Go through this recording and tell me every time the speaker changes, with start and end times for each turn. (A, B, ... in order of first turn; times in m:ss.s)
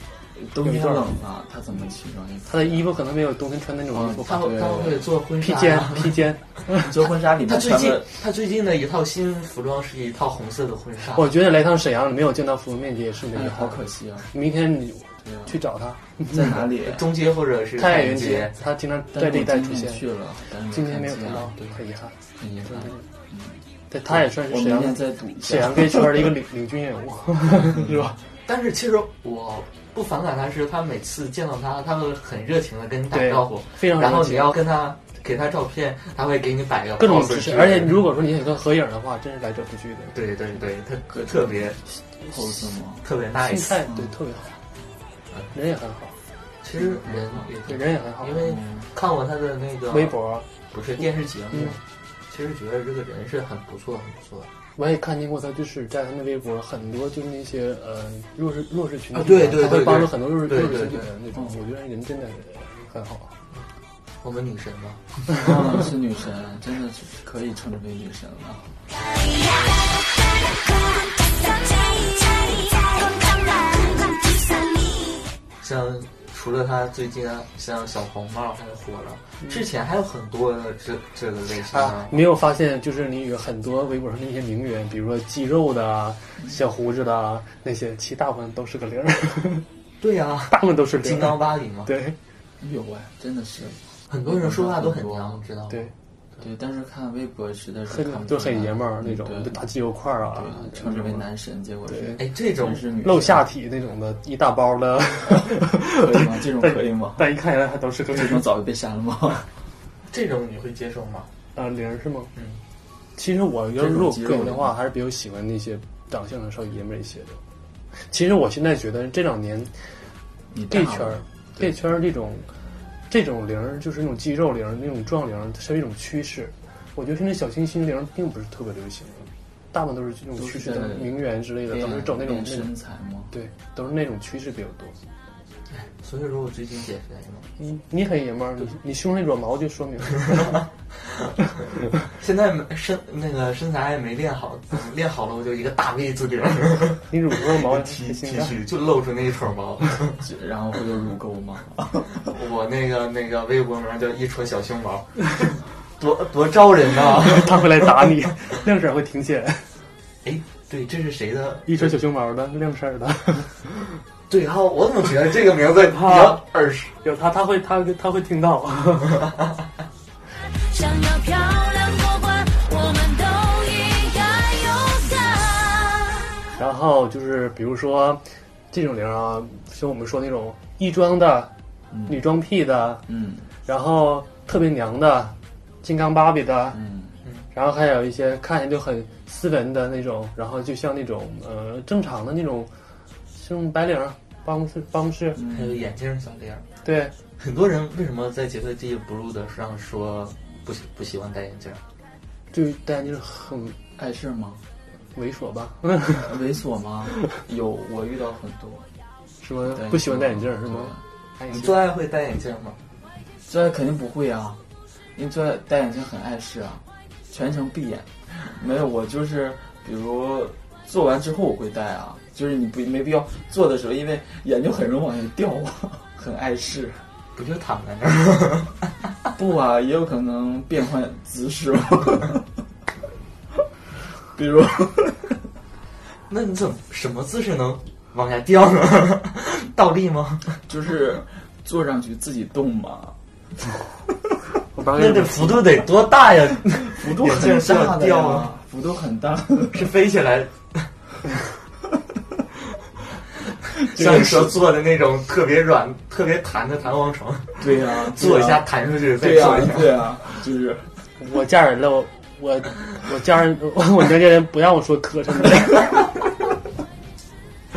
0:00.4-0:02.9 A
0:00.6-0:01.1 B
0:02.5-0:04.6 B
0:03.9-0:05.1 A
0:04.2-0:06.2 C
0:05.4-0:06.9 B
0:06.8-0:08.1 A
0:07.4-0:11.3 C
0:11.1-0:16.4 B
0:13.3-0:14.3 A
0:15.2-0:15.6 A
0:16.3-0:17.1 A
0:16.8-0:18.6 C
0:17.8-0:20.0 B
0:19.1-0:21.6 A
0:20.7-0:23.0 B
0:22.4-0:26.3 A
0:23.9-0:28.2 B
0:27.8-0:28.1 A
0:28.4-0:38.0 C
0:33.1-0:34.6 B
0:37.0-0:40.2 B
0:40.1-0:41.8 C
0:41.1-0:43.0 A
0:43.0-0:43.8 C
0:43.4-0:44.6 B
0:45.5-0:46.1 B
0:46.6-0:50.2 C
0:46.8-0:47.5 A
0:47.7-0:48.5 B
0:48.4-0:48.9 A
0:49.9-0:50.5 B
0:50.7-0:54.5 C
0:54.8-1:03.4 B
0:59.1-1:01.1 C
1:04.2-1:05.2 C
1:05.3-1:08.8 A
1:08.9-1:15.4 D
1:15.6-1:22.2 C
1:21.7-1:29.6 B
1:30.0-1:31.9 C
1:30.5-1:32.2 B
1:32.6-1:35.4 A
1:34.1-1:35.9 C
1:36.4-1:39.6 A
1:37.9-1:41.2 B
1:40.3-1:43.4 A
1:41.9-1:42.2 B
1:42.2-1:42.8 C
1:43.0-1:48.4 B
1:45.9-1:47.3 A
1:48.1-1:49.5 A
1:50.0-1:51.3 C
1:51.5-1:52.3 B
1:53.2-1:57.4 B
1:53.8-1:54.7 A
1:57.9-1:59.9 B
2:00.5-2:01.7 A
2:00.7-2:02.5 B
2:03.1-2:12.7 B
2:10.4-2:13.3 A
2:13.3-2:15.0 B
2:15.7-2:17.5 C
2:17.6-2:20.6 B
2:20.3-2:21.4 C
2:22.0-2:30.2 C
2:27.1-2:28.6 B
2:30.2-2:32.3 A
2:32.1-2:37.8 C
2:37.2-2:39.7 B
2:40.2-2:41.9 C
2:41.7-2:44.0 B
2:44.3-2:46.9 C
2:45.9-2:46.4 B
2:47.0-2:49.4 B
2:50.4-2:56.3 D
2:56.5-3:01.5 B
3:01.9-3:02.2 A
3:02.1-3:03.0 B
3:03.1-3:03.5 A
3:03.6-3:06.8 B
3:06.7-3:07.1 A
3:07.5-3:12.7 B
3:13.4-3:15.4 B
3:15.4-3:15.8 A
3:15.4-3:16.6 C
3:16.8-3:17.1 B
3:17.4-3:21.8 C
3:22.5-3:23.8 B
3:24.0-3:24.6 A
3:25.1-3:26.4 B
3:26.1-3:28.9 A
3:29.4-3:31.8 B
3:29.6-3:31.0 A
3:31.5-3:32.8 C
3:33.5-3:34.6 A
3:35.1-3:47.0 A
3:47.4-3:48.9 C
3:49.4-3:52.5 A
3:54.2-3:55.4 A
3:56.3-4:00.6 C
4:00.6-4:03.2 A
4:04.8-4:05.8 B
4:04.9-4:08.5 C
4:06.8-4:09.9 A
4:09.7-4:10.9 C
4:13.7-4:20.1 C
4:13.8-4:14.5 A
4:17.6-4:20.9 A
4:21.2-4:26.1 B